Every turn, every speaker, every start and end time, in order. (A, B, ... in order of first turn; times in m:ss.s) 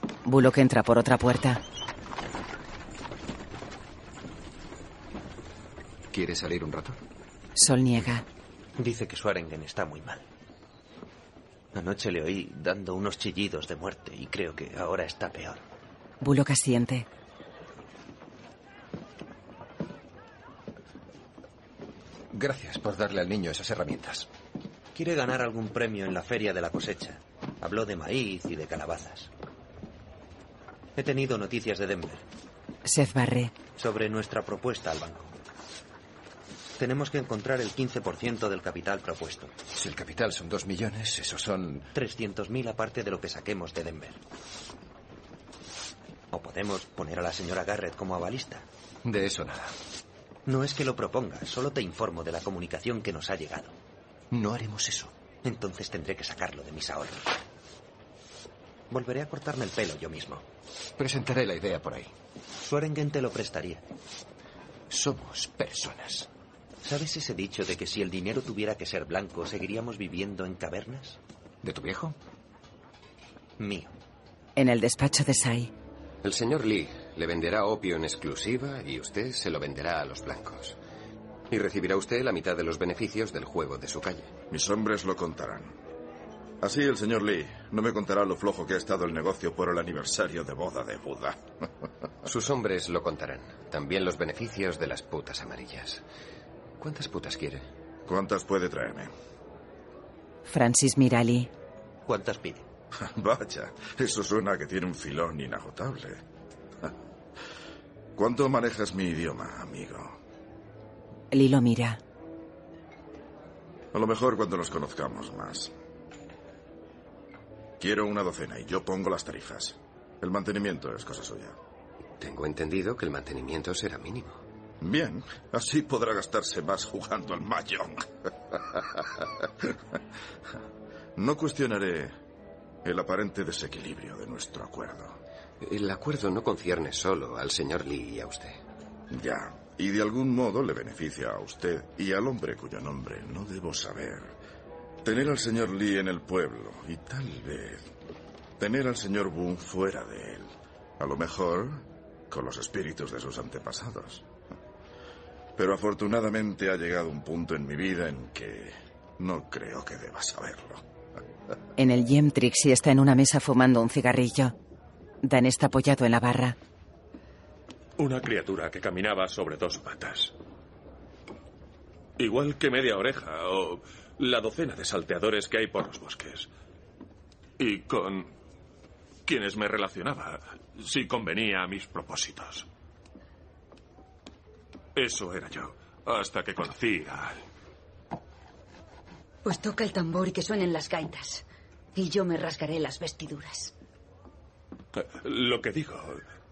0:00.2-0:01.6 A
0:06.1-0:07.0 B
0:07.6-0:08.2 A
0:08.8-0:10.2 C
0:11.7-0:15.6 C
0:16.2-0:17.1 A
0:22.3-0:24.3 B
0:24.9-0:29.3 C
0:31.0-0:32.2 C
0:32.8-0:33.5 A
0:33.8-0:35.3 C
0:36.8-0:39.5 C
0:39.7-0:41.9 B
0:41.9-0:44.2 C
0:46.3-0:48.6 C
0:49.0-0:49.7 B
0:50.4-0:53.7 C
0:54.3-0:55.1 B
0:55.4-0:57.3 C
0:58.9-1:00.4 C
1:01.0-1:02.1 B
1:02.6-1:03.8 C
1:04.9-1:06.3 B
1:06.8-1:11.2 C
1:11.6-1:12.1 B
1:13.6-1:13.9 C
1:14.6-1:15.7 A
1:16.2-1:20.8 D
1:21.5-1:24.3 D
1:24.5-1:25.7 E
1:26.6-1:31.4 E
1:32.2-1:36.0 D
1:36.8-1:37.6 D
1:38.0-1:39.1 E
1:40.4-1:41.5 A
1:42.0-1:42.6 C
1:43.0-1:46.2 E
1:48.2-1:50.2 E
1:51.3-1:52.0 A
1:53.9-1:55.7 E
1:57.8-2:01.6 E
2:02.2-2:04.4 D
2:04.8-2:09.7 E
2:11.2-2:12.1 E
2:12.8-2:15.2 E
2:15.6-2:18.6 D
2:19.1-2:24.3 E
2:25.0-2:27.8 E
2:28.6-2:34.2 E
2:35.6-2:40.8 E
2:41.8-2:44.5 A
2:45.2-2:46.6 A
2:48.0-2:50.3 F
2:52.2-2:56.5 F
2:57.6-2:58.3 F
2:59.2-3:02.6 F
3:05.0-3:07.4 F
3:09.4-3:11.4 G
3:11.9-3:13.7 G
3:14.9-3:16.2 F